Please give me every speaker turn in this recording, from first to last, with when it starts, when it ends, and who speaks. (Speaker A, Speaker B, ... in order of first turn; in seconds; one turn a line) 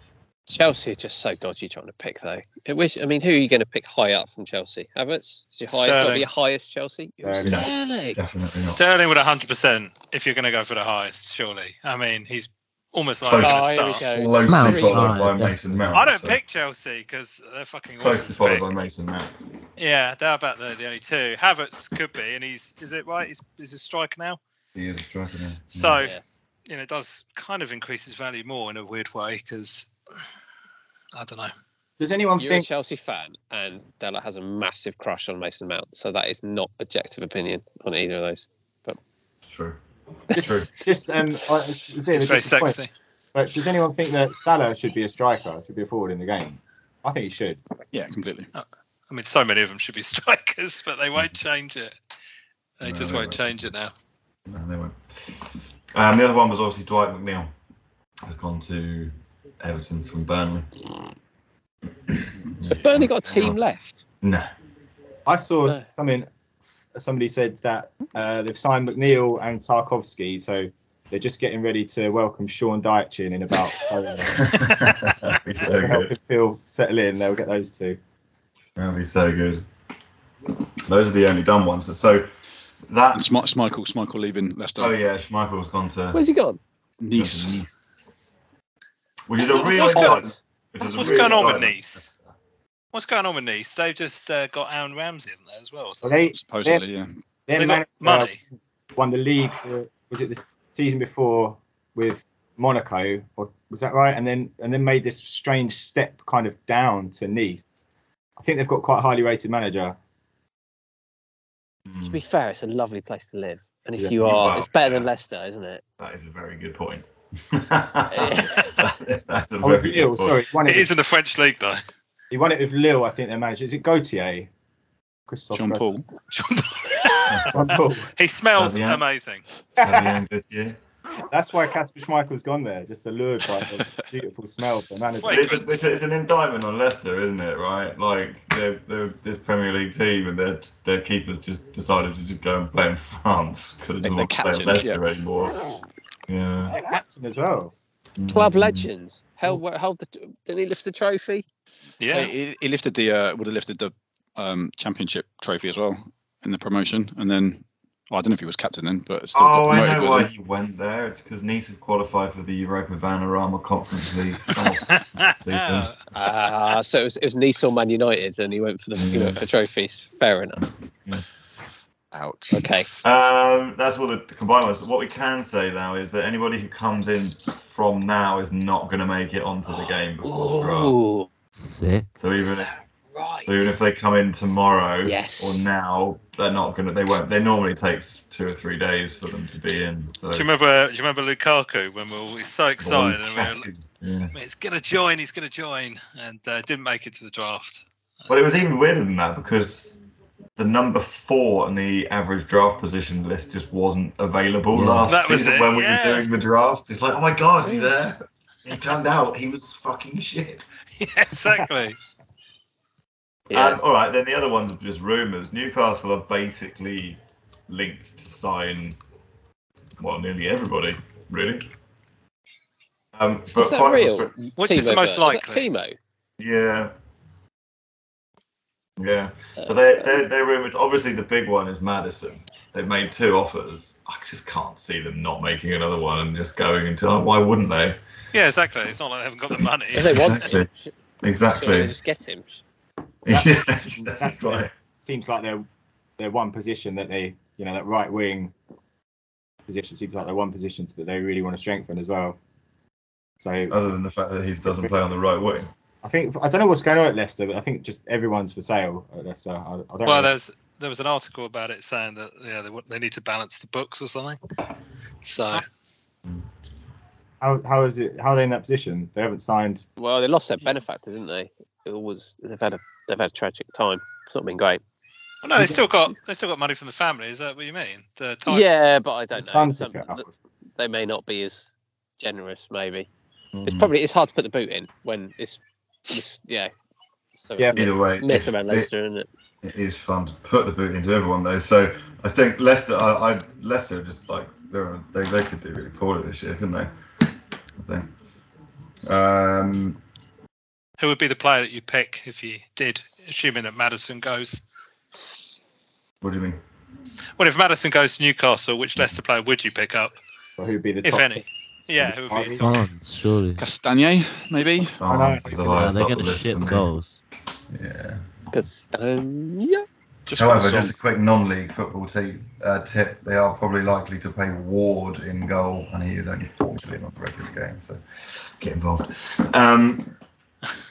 Speaker A: 0.5-8.2
Speaker B: 5.7-6.3
Speaker C: 7.2-7.7
Speaker D: 7.4-8.8
Speaker B: 8.6-14.1
Speaker D: 13.2-16.4
Speaker A: 13.4-15.1
Speaker E: 14.5-15.8
Speaker B: 15.9-18.7
Speaker D: 18.0-19.3
Speaker B: 19.8-24.4
Speaker D: 24.8-26.0
Speaker B: 25.7-29.9
Speaker B: 31.1-31.5
Speaker C: 32.0-32.7
Speaker A: 32.4-39.0
Speaker D: 39.5-39.8
Speaker C: 40.3-42.8
Speaker D: 40.4-40.7
Speaker B: 42.1-42.9
Speaker C: 43.3-47.6
Speaker F: 47.9-48.5
Speaker B: 48.5-52.0
Speaker B: 52.8-53.9
Speaker D: 52.8-53.7
Speaker D: 54.5-57.5
Speaker D: 58.2-60.7
Speaker D: 62.1-63.6
Speaker A: 62.7-64.0
Speaker D: 64.2-64.5
Speaker C: 65.3-66.3
Speaker C: 66.9-74.6
Speaker D: 74.3-76.1
Speaker C: 75.6-78.0
Speaker D: 78.8-79.7
Speaker D: 80.8-82.3
Speaker D: 82.9-83.3
Speaker F: 83.1-85.0
Speaker D: 84.8-86.2
Speaker A: 86.1-86.6
Speaker F: 87.0-87.5
Speaker D: 87.2-87.9
Speaker D: 89.3-92.2
Speaker A: 89.4-90.3
Speaker B: 89.4-92.1
Speaker B: 92.9-96.2
Speaker C: 96.0-96.8
Speaker F: 96.3-97.2
Speaker C: 97.5-98.3
Speaker B: 97.6-98.4
Speaker C: 99.0-107.8
Speaker C: 108.4-110.0
Speaker D: 111.9-112.2
Speaker A: 112.0-115.8
Speaker D: 114.2-115.1
Speaker D: 116.0-120.5
Speaker A: 118.1-118.8
Speaker C: 119.6-120.9
Speaker B: 120.6-121.8
Speaker C: 122.3-124.5
Speaker C: 125.3-125.9
Speaker F: 125.5-126.1
Speaker B: 126.3-129.4
Speaker D: 127.3-127.5
Speaker C: 127.5-128.1
Speaker D: 128.6-129.0
Speaker D: 129.8-130.8
Speaker C: 129.8-130.2
Speaker C: 131.2-135.7
Speaker B: 135.2-135.9
Speaker D: 135.3-145.6
Speaker F: 144.0-145.0
Speaker D: 146.3-146.7
Speaker C: 146.7-147.7
Speaker D: 148.2-148.9
Speaker A: 148.3-151.5
Speaker B: 152.0-152.3
Speaker F: 152.1-160.3
Speaker D: 159.3-165.9
Speaker B: 164.5-166.0
Speaker A: 166.1-170.7
Speaker D: 169.0-169.4
Speaker F: 172.1-172.7
Speaker A: 172.5-172.9
Speaker D: 173.0-181.0
Speaker A: 179.7-181.3
Speaker E: 181.6-182.1
Speaker D: 182.2-182.7
Speaker A: 182.4-183.7
Speaker D: 183.5-190.5
Speaker A: 185.0-185.7
Speaker B: 190.3-193.7
Speaker D: 192.8-194.3
Speaker B: 194.3-198.4
Speaker D: 198.3-200.0
Speaker D: 200.6-210.7
Speaker E: 204.7-205.2
Speaker B: 205.1-206.3
Speaker B: 211.0-212.0
Speaker A: 213.5-213.8
Speaker D: 213.5-219.0
Speaker D: 220.0-221.7
Speaker D: 223.1-224.4
Speaker A: 223.5-226.0
Speaker B: 224.6-225.7
Speaker D: 226.4-226.9
Speaker D: 229.0-238.0
Speaker B: 238.3-240.5
Speaker A: 239.9-240.9
Speaker D: 239.9-240.7
Speaker D: 241.2-241.9
Speaker A: 241.5-242.6
Speaker D: 243.2-244.7
Speaker C: 243.3-245.7
Speaker C: 246.2-248.5
Speaker C: 249.7-252.4
Speaker C: 253.4-253.8
Speaker D: 253.7-255.7
Speaker C: 254.7-254.9
Speaker C: 256.0-260.3
Speaker B: 260.1-264.4
Speaker B: 265.2-265.6
Speaker C: 267.4-269.9
Speaker A: 270.0-274.8
Speaker B: 275.4-278.7
Speaker A: 278.5-283.1
Speaker C: 279.3-280.3
Speaker D: 283.5-283.9
Speaker A: 283.7-286.7
Speaker A: 287.4-289.3
Speaker C: 287.6-287.9
Speaker D: 287.8-288.9
Speaker D: 289.6-296.9
Speaker D: 297.8-298.1
Speaker D: 299.1-300.0
Speaker B: 301.0-304.6
Speaker D: 306.2-306.6
Speaker B: 307.4-310.1
Speaker C: 310.6-311.4
Speaker B: 311.0-312.8
Speaker C: 312.0-312.6
Speaker E: 312.6-313.6
Speaker F: 313.6-315.0
Speaker D: 315.0-316.9
Speaker C: 315.0-315.9
Speaker E: 315.7-317.2
Speaker D: 317.7-318.3
Speaker A: 318.5-319.9
Speaker F: 320.3-320.9
Speaker D: 320.3-330.2